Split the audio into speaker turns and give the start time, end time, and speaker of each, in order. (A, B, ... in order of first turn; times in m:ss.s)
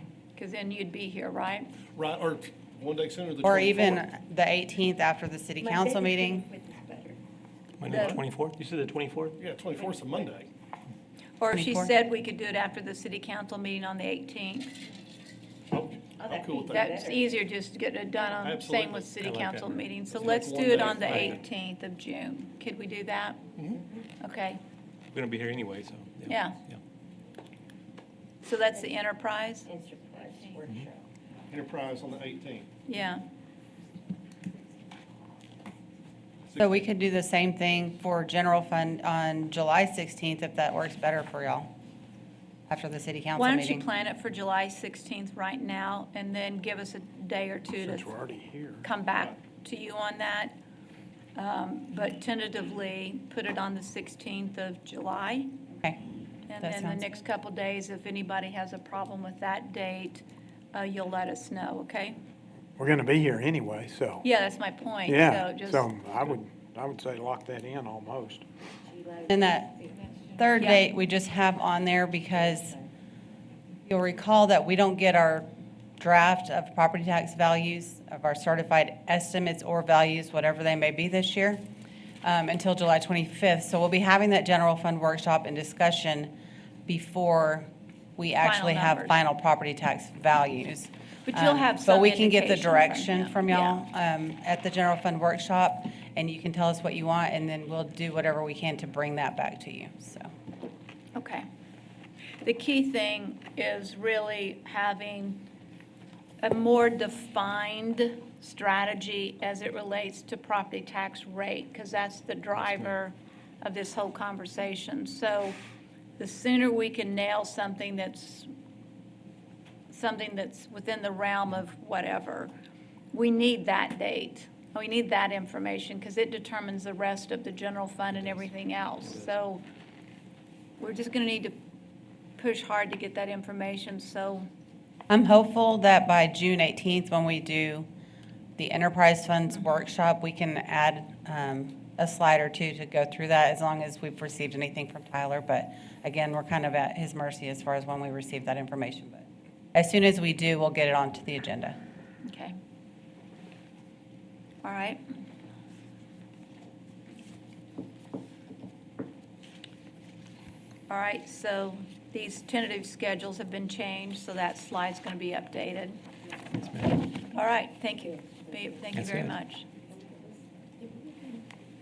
0:00.4-0:01.7 A
0:02.0-0:04.0 B
0:03.4-0:06.5 C
0:05.6-0:07.2 D
0:07.8-0:09.4 E
0:07.9-0:08.2 A
0:09.4-0:10.5 B
0:09.8-0:10.3 D
0:11.4-0:14.8 A
0:11.5-0:11.9 C
0:15.7-0:16.7 B
0:16.2-0:17.3 D
0:16.6-0:23.4 A
0:18.4-0:21.4 B
0:19.2-0:19.5 E
0:21.0-0:21.4 E
0:24.2-0:24.6 A
0:25.1-0:26.8 E
0:26.3-0:26.6 A
0:28.4-0:29.7 A
0:29.7-0:31.0 D
0:30.3-0:30.6 A
0:31.5-0:32.7 B
0:32.9-0:33.2 A
0:36.5-0:36.9 B
0:36.6-0:41.7 C
0:42.7-0:43.9 C
0:43.4-0:48.1 A
0:47.8-0:48.9 F
0:48.8-0:50.5 A
0:51.4-0:55.5 A
0:56.5-1:02.2 A
0:56.6-0:57.1 C
1:02.8-1:04.2 F
1:04.2-1:06.3 A
1:05.1-1:08.4 F
1:08.9-1:10.4 D
1:09.3-1:09.8 C
1:10.4-1:12.8 C
1:10.6-1:10.8 A
1:12.5-1:12.8 D
1:13.9-1:15.5 C
1:16.0-1:21.6 C
1:22.2-1:26.3 C
1:26.9-1:40.3 C
1:28.4-1:29.2 A
1:31.3-1:33.9 A
1:41.2-1:41.4 A
1:42.4-1:45.4 A
1:46.4-1:55.6 A
1:52.6-1:52.9 E
1:56.2-1:58.5 A
1:59.9-2:02.5 A
2:03.1-2:09.6 A
2:08.1-2:08.4 E
2:10.8-2:11.6 A
2:12.4-2:14.5 A
2:15.1-2:17.9 C
2:18.6-2:31.8 C
2:32.3-2:32.6 A
2:34.6-2:35.0 A
2:40.9-2:46.0 A
2:46.6-2:46.9 E
2:47.3-2:49.7 A
2:49.0-2:49.3 E
2:49.9-2:51.4 D